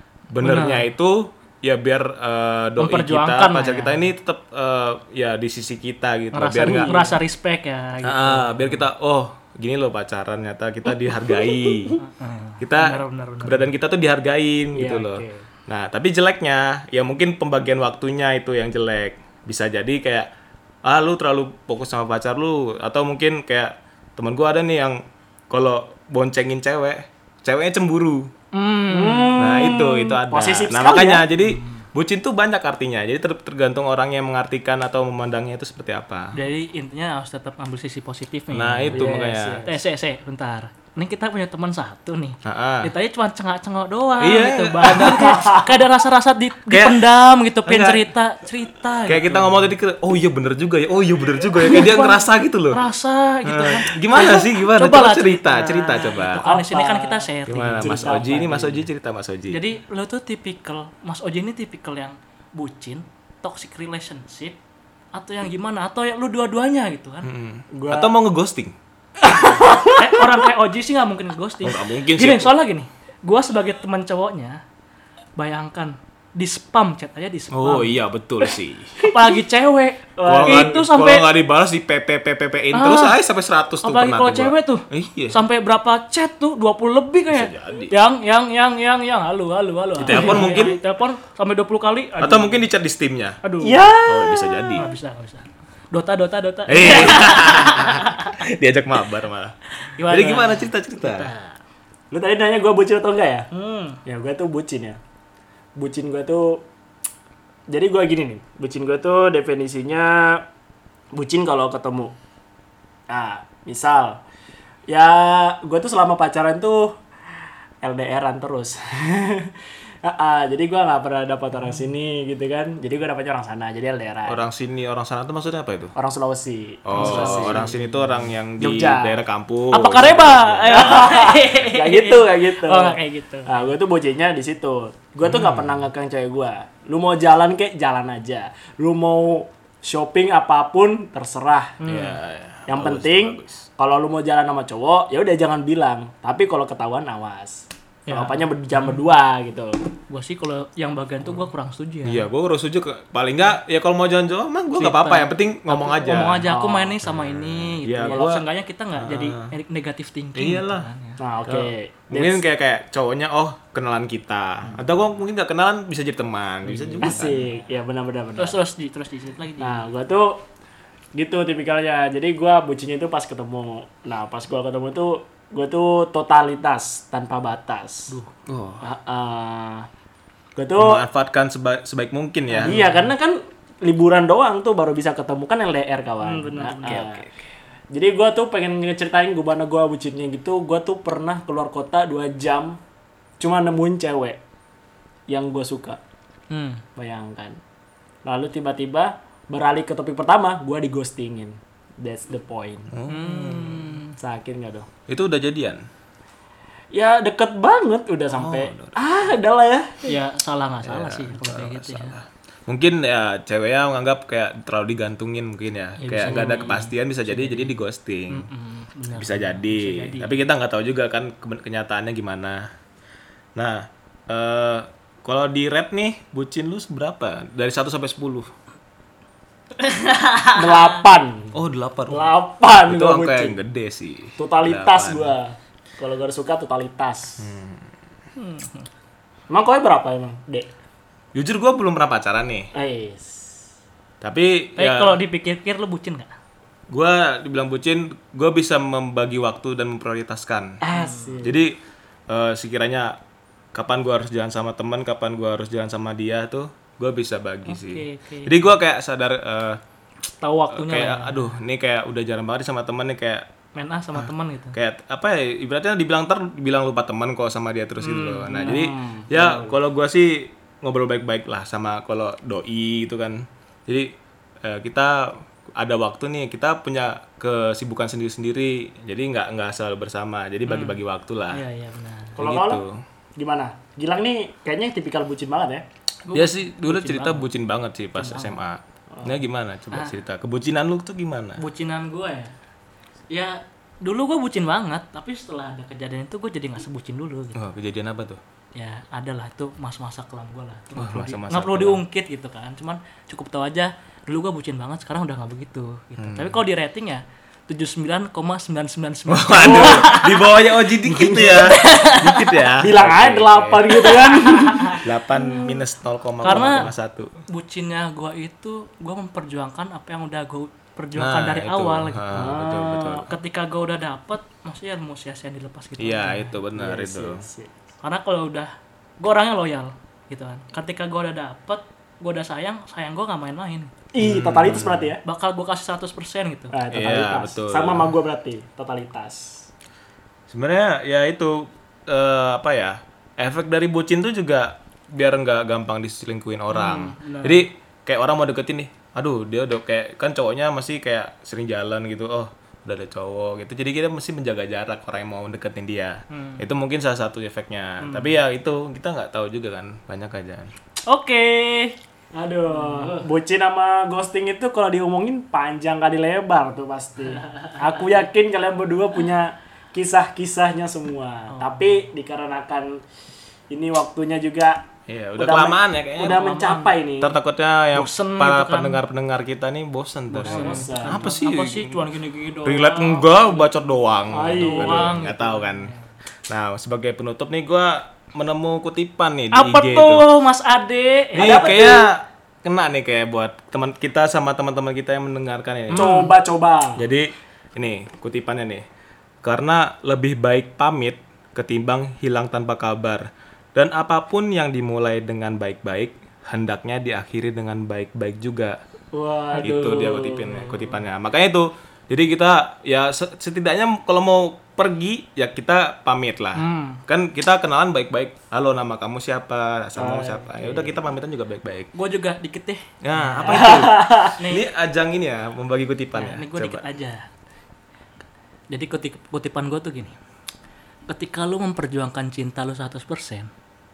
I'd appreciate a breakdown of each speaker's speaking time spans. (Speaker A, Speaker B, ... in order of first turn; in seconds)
Speaker A: 0.3-7.0, 8.0-12.0, 12.6-20.3, 20.8-28.3, 29.4-36.3, 38.5-39.6, 42.4-42.9, 44.2-45.6, 46.7-47.0, 47.6-48.1, 49.0-52.8, 53.4-56.4, 57.5-59.6, 67.2-68.7, 71.6-72.5, 77.5-79.0, 80.2-85.4, 87.3-87.9, 90.0-90.8, 92.2-93.4, 94.0-94.9, 96.7-99.5, 100.1-101.3, 124.3-126.0, 126.8-131.3, 135.2-135.9, 141.9-143.7, 152.0-156.5, 157.0-158.4, 158.9-159.5, 160.3-160.9, 161.4-167.4, 178.5-178.8, 180.8-182.8, 202.9-204.0, 205.1-205.8, 208.3-209.0, 210.8-218.5, 219.1-222.7, 223.6-228.5, 231.5-235.3, 237.4-237.9, 241.3-242.7, 244.2-245.2, 246.9-250.8, 251.4-251.8, 252.3-253.2, 253.7-259.8, 260.7-263.5, 264.1-281.6, 282.4-283.0, 286.3-291.6, 297.5-298.4, 300.9-302.0, 306.2-306.6, 309.3-314.1, 314.9-317.4, 321.1-323.3, 326.0-327.4, 334.2-335.1, 336.9-338.1, 340.5-360.7, 375.1-376.4, 377.2-382.1, 382.6-385.9, 386.5-390.2, 391.4-396.1, 397.0-398.8, 399.4-408.8, 409.6-421.9, 423.0-426.8
Speaker B: 0.4-0.9, 2.8-4.0, 6.3-8.8, 12.0-13.7, 28.5-29.6, 31.4-31.8, 36.3-49.7, 51.6-58.2, 59.5-64.6, 65.1-67.3, 69.4-74.6, 75.4-78.0, 79.0-81.3, 82.7-83.2, 83.8-92.6, 93.4-93.8, 94.8-98.3, 99.8-101.6, 103.5-104.0, 126.9-127.8, 129.7-133.7, 141.8-142.2, 148.1-149.1, 150.1-152.3, 154.7-161.2, 166.8-167.5, 168.4-169.9, 178.1-178.3, 182.6-183.1, 186.2-187.3, 196.5-196.8, 203.1-204.2, 210.0-212.2, 216.0-217.8, 218.3-220.4, 229.8-230.9, 238.3-238.9, 244.8-246.3, 250.9-251.4, 257.7-258.6, 260.3-261.6, 263.7-264.8, 268.0-268.9, 280.6-281.0, 281.5-282.4, 286.2-287.5, 288.1-288.5, 291.6-292.5, 293.3-297.6, 298.7-310.5, 311.1-312.5, 314.0-315.7, 316.4-316.9, 317.5-326.6, 328.0-333.9, 335.2-336.8, 346.7-347.7, 356.3-356.6, 361.1-361.9, 362.7-363.2, 367.5-367.9, 371.5-372.0, 376.2-377.0, 377.9-379.0, 380.3-383.5, 384.5-386.0, 389.5-391.6, 395.9-396.3, 409.5-410.1, 416.6-417.0, 421.9-424.6, 426.1-427.3, 428.7-430.2, 431.1-433.5
Speaker C: 6.6-7.1, 11.0-12.0, 14.7-15.4, 28.9-31.3, 38.9-39.8, 56.4-58.8, 67.7-68.1, 69.3-70.3, 80.2-80.8, 90.1-90.7, 93.6-94.8, 102.1-103.5, 104.0-105.0, 105.8-106.6, 107.7-110.4, 111.1-112.1, 113.1-114.2, 114.9-117.0, 117.8-124.4, 126.0-127.8, 128.6-129.2, 130.7-141.8, 142.7-149.8, 156.5-157.0, 158.1-158.4, 161.2-162.4, 167.0-168.6, 169.6-170.4, 171.1-178.1, 178.8-179.9, 180.6-181.0, 182.6-187.3, 187.9-192.8, 193.4-194.4, 195.3-196.0, 196.9-197.6, 198.2-202.9, 204.2-204.9, 206.9-210.0, 216.3-216.7, 230.5-231.6, 232.1-233.6, 234.4-237.5, 239.5-240.7, 242.7-243.6, 250.8-251.6, 268.6-269.7, 282.4-282.8, 283.4-285.8, 309.6-310.1, 311.1-311.6, 312.8-315.1, 316.4-316.9, 322.3-323.2, 326.7-327.7, 334.1-335.2, 336.7-339.7, 362.3-373.0, 373.7-374.8, 375.4-377.4, 380.4-381.3, 384.3-385.2, 391.4-392.1, 395.9-397.1, 409.1-410.8, 420.0-420.9, 423.5-424.3